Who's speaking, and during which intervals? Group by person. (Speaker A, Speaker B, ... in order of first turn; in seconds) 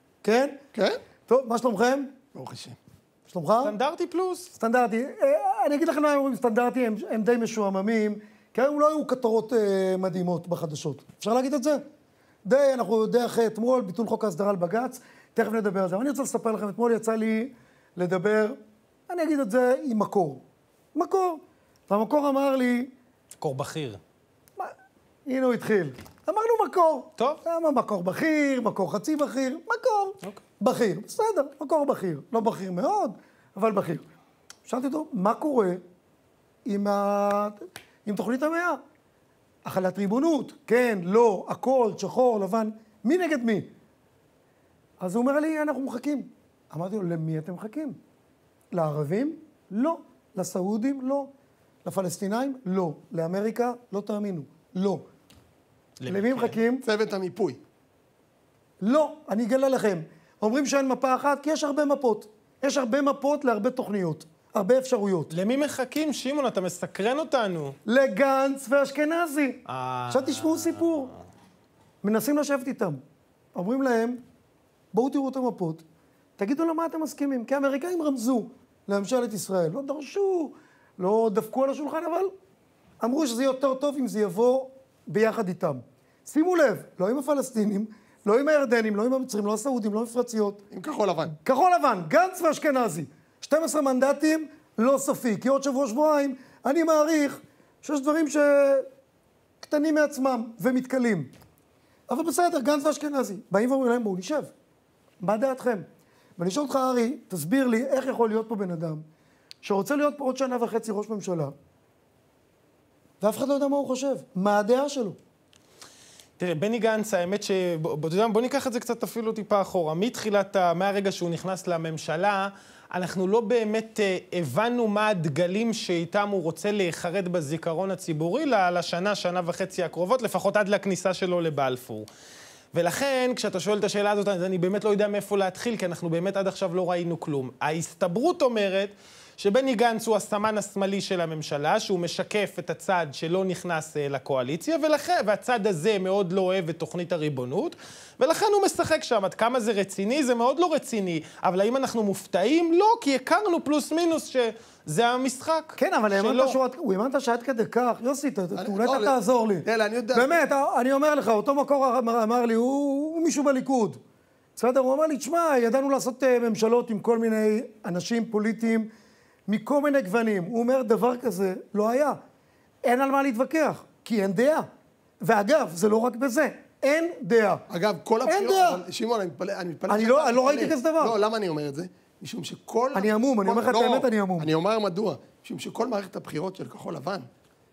Speaker A: 0.2-0.6, 1.3-2.2, 3.3-3.8, 4.6-11.8, 12.4-22.9, 25.3-34.1, 34.7-35.8, 36.6-38.8, 39.6-43.7, 45.0-48.0, 48.7-51.3, 51.8-55.1, 56.1-56.8, 58.8-65.3, 67.9-71.1, 72.0-73.0, 73.5-74.2, 74.9-75.8, 76.4-82.3, 83.0-90.6, 91.4-98.9, 99.6-101.3, 102.1-104.5, 105.2-105.9, 106.4-109.0, 109.6-111.5, 113.2-115.2, 155.8-164.0, 164.6-168.9, 169.5-172.2, 172.8-174.7, 175.2-177.6, 178.2-178.8, 179.9-181.2, 182.9-184.5
Speaker B: 0.7-1.0, 2.3-2.8, 56.8-57.6, 90.7-91.3, 158.6-159.1, 159.6-160.3, 177.7-187.3
Speaker C: 3.6-4.5, 23.4-24.0, 56.0-56.6, 65.3-67.8, 69.7-70.6, 116.4-132.1, 132.7-156.6